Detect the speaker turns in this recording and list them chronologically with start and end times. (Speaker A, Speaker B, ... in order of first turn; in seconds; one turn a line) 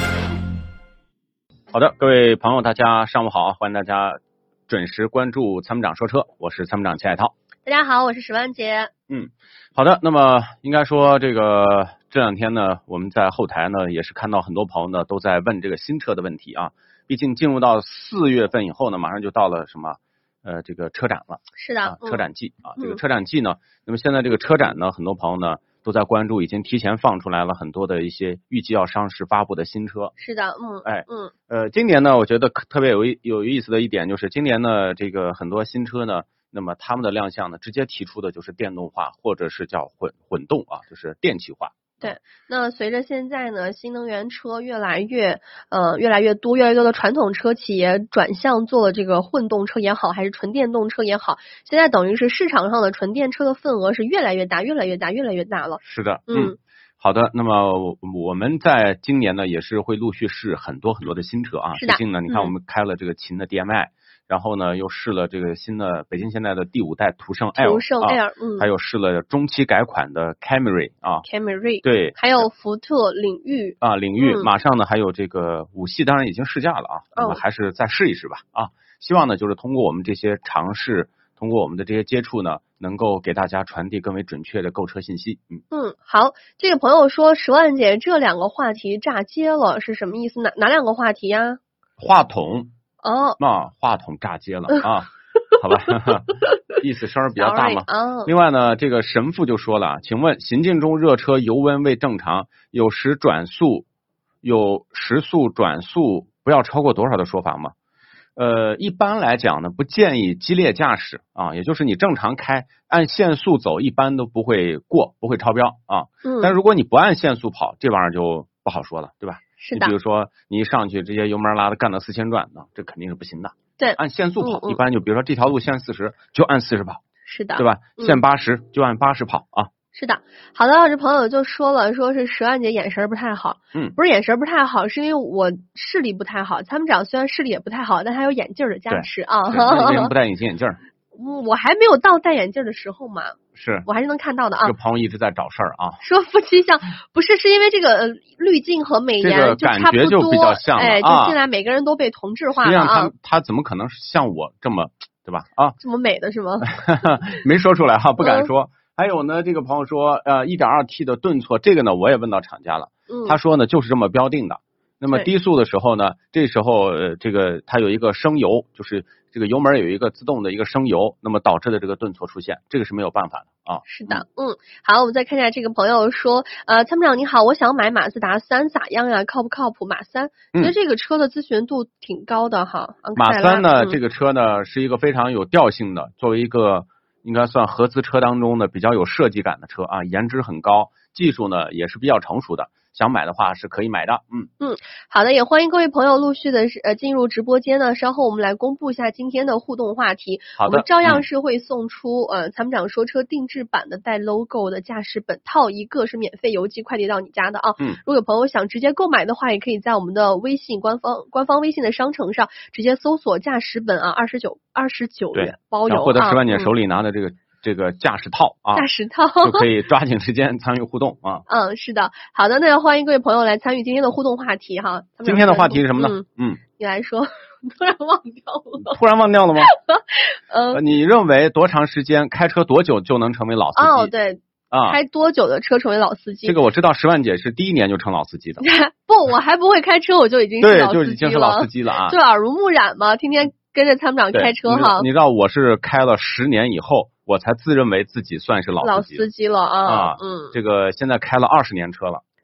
Speaker A: 1.7-7.3
Speaker B: 7.7-8.9
Speaker A: 9.1-30.1
Speaker B: 21.6-22.3
Speaker B: 30.2-31.3
Speaker A: 30.8-42.1
Speaker B: 42.0-56.6
Speaker A: 55.8-71.2
Speaker B: 61.8-62.5
Speaker B: 67.6-68.7
Speaker B: 71.3-74.5
Speaker A: 71.8-72.5
Speaker A: 73.8-85.6
Speaker B: 77.2-77.4
Speaker B: 85.7-91.6
Speaker A: 92.0-92.7
Speaker B: 93.0-93.4
Speaker A: 93.4-103.9
Speaker B: 97.4-98.3
Speaker A: 104.4-107.7
Speaker A: 108.4-127.0
Speaker B: 116.2-116.5
Speaker B: 119.6-120.0
Speaker B: 123.8-124.8
Speaker B: 127.2-128.2
Speaker A: 127.6-129.7
Speaker B: 129.9-140.1
Speaker A: 138.9-140.8
Speaker B: 141.2-144.7
Speaker A: 143.5-143.9
Speaker A: 144.6-146.0
Speaker B: 146.0-153.1
Speaker A: 149.2-151.4
Speaker A: 152.6-155.8
Speaker B: 155.8-156.8
Speaker A: 156.7-174.2
Speaker B: 158.2-158.5
Speaker B: 163.1-163.4
Speaker B: 173.9-184.0
Speaker A: 183.2-194.5
Speaker B: 194.6-216.7
Speaker A: 200.6-201.2
Speaker A: 215.3-218.9
Speaker B: 218.7-219.7
Speaker A: 219.4-221.4
Speaker B: 221.5-226.2
Speaker A: 225.2-226.6
Speaker B: 226.8-229.0
Speaker A: 228.8-229.7
Speaker B: 229.7-230.8
Speaker A: 230.7-234.1
Speaker B: 233.8-236.6
Speaker A: 234.7-235.0
Speaker A: 236.4-238.6
Speaker B: 238.6-245.1
Speaker A: 240.6-242.2
Speaker A: 244.3-249.3
Speaker B: 248.8-250.5
Speaker A: 249.8-252.2